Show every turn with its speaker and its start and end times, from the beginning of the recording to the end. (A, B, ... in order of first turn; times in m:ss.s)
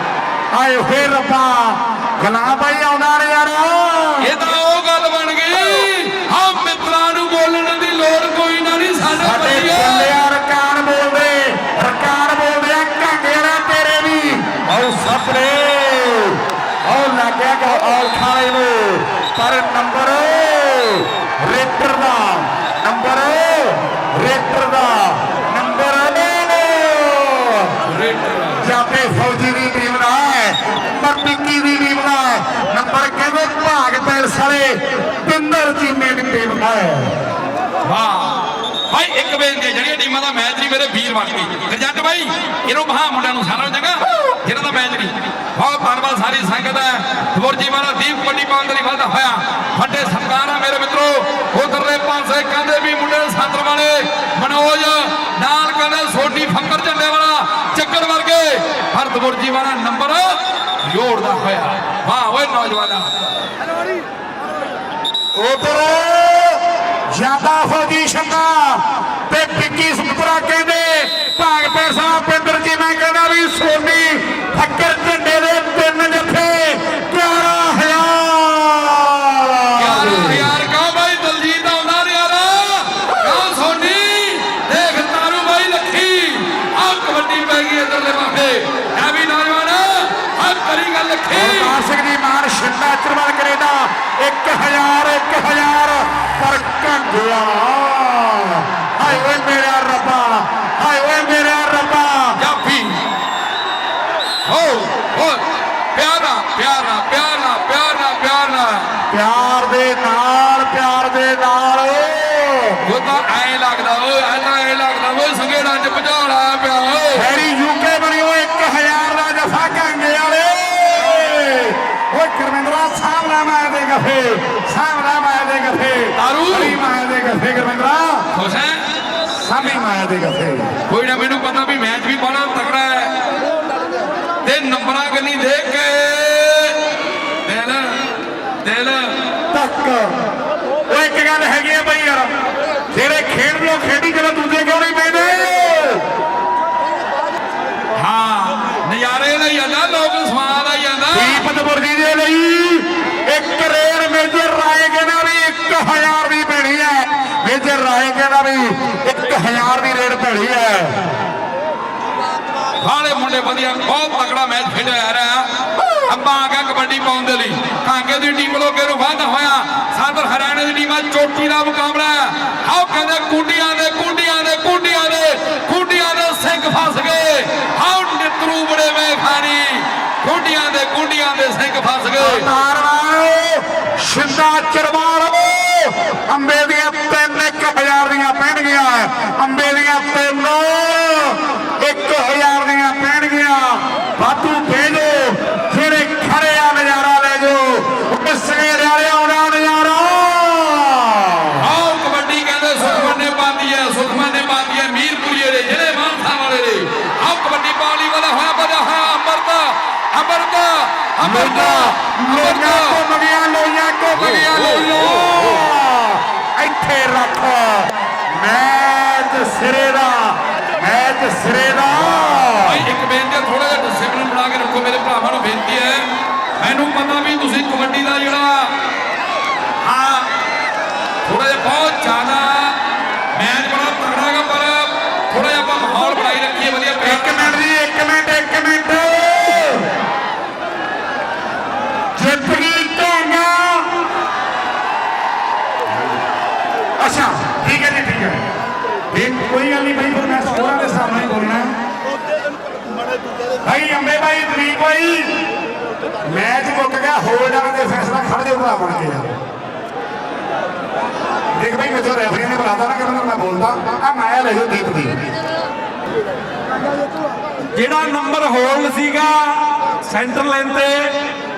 0:00.5-0:04.3 A
0:04.2-0:10.1 B
0:09.2-0:27.7 A
0:27.8-0:28.6 B
0:28.6-0:37.1 A
0:37.8-1:03.1 B
1:05.4-1:20.4 A
1:19.8-1:31.7 B
1:31.3-1:42.4 A
1:42.4-1:43.0 B
1:44.4-1:48.9 B
1:49.1-1:52.8 A
1:52.8-1:57.3 B
1:57.1-2:08.2 A
2:06.2-2:06.8 B
2:08.3-2:08.8 B
2:09.3-2:10.7 A
2:10.9-2:13.3 B
2:14.4-2:16.8 B
2:17.4-2:18.0 B
2:18.6-2:19.1 B
2:19.5-2:20.2 A
2:20.9-2:22.3 A
2:22.9-2:26.0 A
2:27.9-2:31.4 B
2:31.1-2:41.0 A
2:42.8-2:45.5 B
2:46.1-3:02.5 B
3:02.2-3:21.6 A
3:21.6-3:33.0 B
3:31.2-3:42.8 A
3:42.6-3:46.1 B
3:46.6-3:48.7 B
3:49.8-3:50.3 B
3:51.2-3:52.8 B
3:53.3-3:57.6 B
3:57.0-3:59.8 A
4:02.2-4:04.0 A
4:07.0-4:08.4 A
4:09.1-4:11.7 A
4:13.6-4:15.3 A
4:16.2-4:19.3 A
4:21.5-4:25.2 A
4:27.7-4:31.1 C